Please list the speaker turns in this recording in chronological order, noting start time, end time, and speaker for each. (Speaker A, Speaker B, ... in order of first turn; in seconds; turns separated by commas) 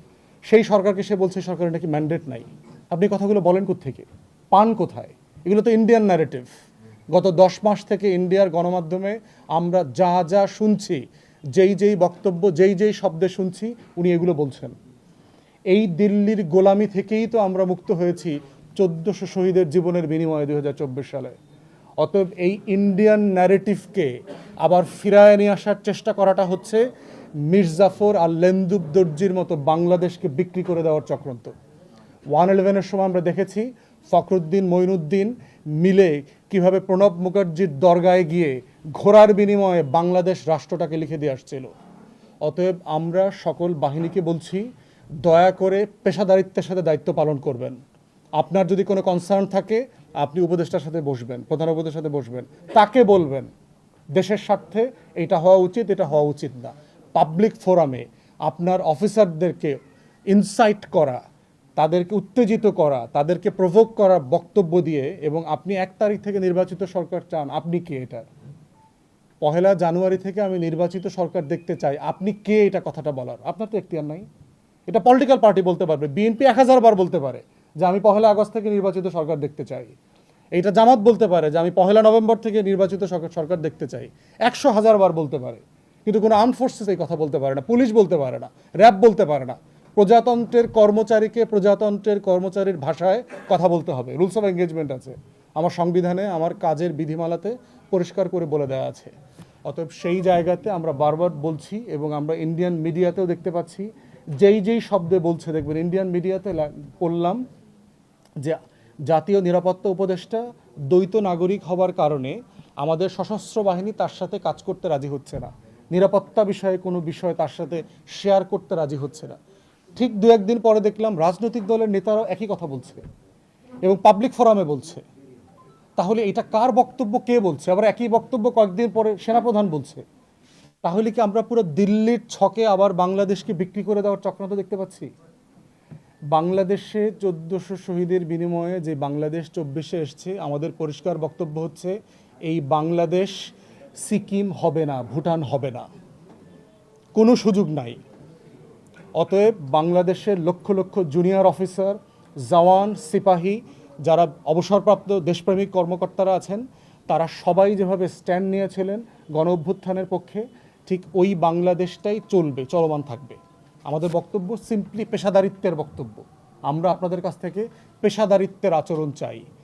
Speaker A: 0.5-6.5, Speaker A: 7.1-11.0, Speaker A: 11.6-14.8, Speaker A: 15.7-21.4, Speaker A: 22.0-24.1, Speaker A: 24.6-26.9, Speaker A: 27.5-31.5, Speaker A: 32.3-41.7, Speaker A: 42.4-44.7, Speaker A: 45.2-47.8, Speaker A: 48.4-53.5, Speaker A: 54.1-59.8, Speaker A: 60.3-61.2, Speaker A: 61.8-68.3, Speaker A: 69.4-74.3, Speaker A: 74.9-79.9, Speaker A: 80.5-99.1, Speaker A: 99.7-103.9, Speaker A: 104.4-107.4, Speaker A: 108.4-119.4, Speaker A: 120.0-123.0, Speaker A: 123.8-125.0, Speaker A: 126.0-130.0, Speaker A: 130.8-135.1, Speaker A: 136.3-141.9, Speaker A: 142.5-143.4, Speaker A: 144.0-145.9, Speaker A: 147.2-148.0, Speaker A: 149.2-169.4